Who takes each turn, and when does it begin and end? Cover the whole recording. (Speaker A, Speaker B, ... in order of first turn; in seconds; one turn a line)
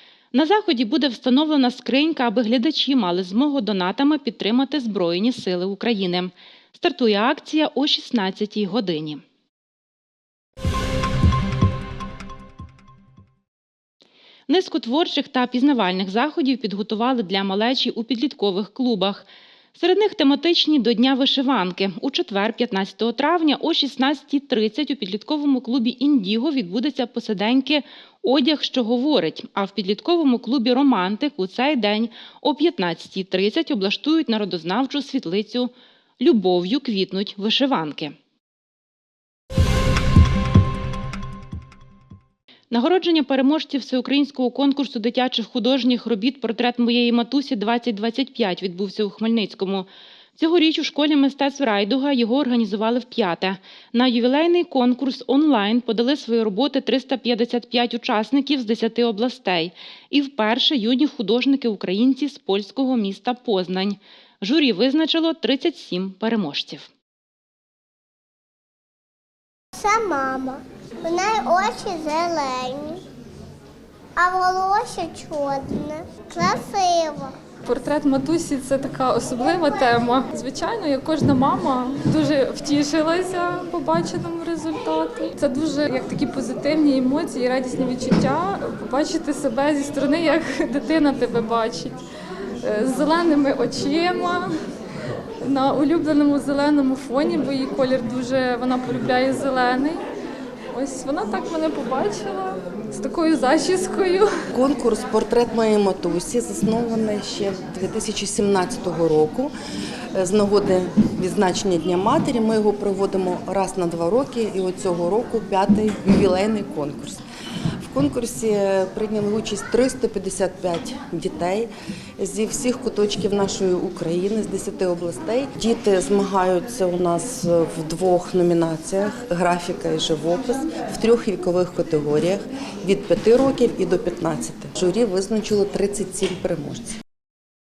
Speaker A: 0.3-9.2
Speaker A: 14.5-38.1
Speaker A: 42.7-66.9
Speaker B: 69.7-73.0
Speaker B: 74.2-77.3
Speaker C: 77.7-92.0
Speaker B: 79.3-80.1
Speaker C: 92.6-94.5
Speaker C: 95.4-100.0
Speaker C: 100.7-104.3
Speaker D: 104.5-109.5
Speaker D: 110.1-117.2
Speaker D: 117.8-137.0